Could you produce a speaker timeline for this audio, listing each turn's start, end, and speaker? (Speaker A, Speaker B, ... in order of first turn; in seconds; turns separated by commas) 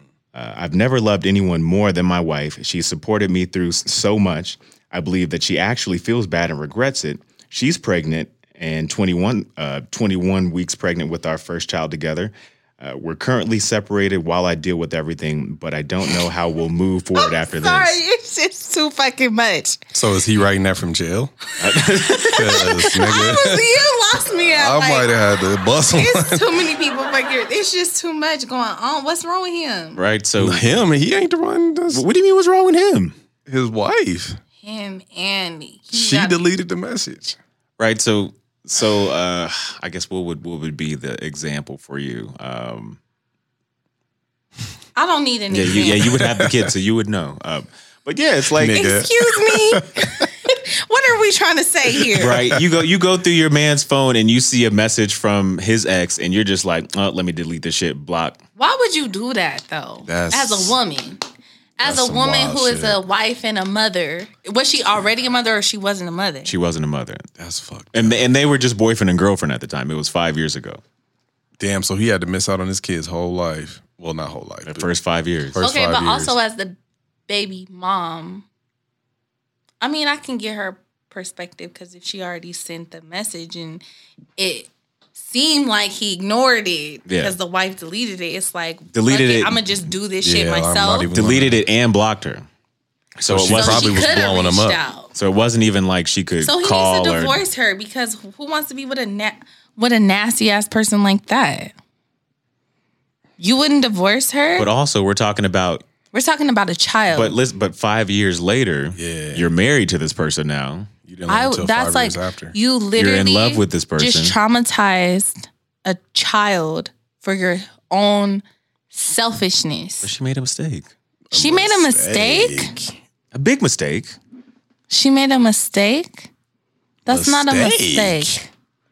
Speaker A: 0.3-18.0, Speaker B: 17.2-19.8, Speaker C: 19.9-21.3, Speaker A: 21.6-22.6, Speaker B: 21.8-25.1, Speaker C: 22.3-23.7, Speaker C: 24.3-26.6, Speaker B: 25.9-30.0, Speaker A: 29.9-30.8, Speaker C: 30.4-32.0, Speaker A: 31.9-33.1, Speaker C: 33.5-34.4, Speaker B: 34.6-36.4, Speaker C: 35.9-37.4, Speaker A: 37.8-43.0, Speaker B: 45.0-46.1, Speaker A: 45.5-48.8, Speaker C: 45.7-46.7, Speaker C: 48.5-50.3, Speaker B: 48.7-52.4, Speaker C: 52.0-52.8, Speaker A: 52.2-58.4, Speaker B: 58.6-61.2, Speaker C: 60.0-60.8, Speaker B: 61.8-66.5, Speaker C: 61.8-63.0, Speaker A: 66.5-67.3, Speaker C: 67.4-68.2, Speaker A: 67.9-70.8, Speaker C: 71.6-74.9, Speaker A: 74.7-75.6, Speaker C: 75.5-76.3, Speaker B: 75.6-76.8, Speaker B: 77.3-78.5, Speaker B: 79.8-83.8, Speaker B: 84.4-91.1, Speaker A: 87.1-87.3, Speaker A: 88.9-89.6, Speaker C: 90.2-91.6, Speaker A: 91.1-92.5, Speaker A: 93.2-94.0, Speaker C: 93.3-94.8, Speaker B: 93.5-95.1, Speaker A: 95.1-97.4, Speaker B: 96.4-101.7, Speaker B: 103.4-104.7, Speaker A: 104.6-105.9, Speaker B: 106.1-107.3, Speaker A: 107.1-110.9, Speaker C: 109.0-109.5, Speaker C: 111.1-112.5, Speaker B: 111.3-120.1, Speaker A: 113.0-114.4, Speaker A: 120.0-120.9, Speaker C: 121.3-123.0, Speaker B: 121.3-122.7, Speaker A: 123.3-124.2, Speaker B: 124.9-126.3, Speaker B: 127.1-128.5, Speaker C: 127.1-128.4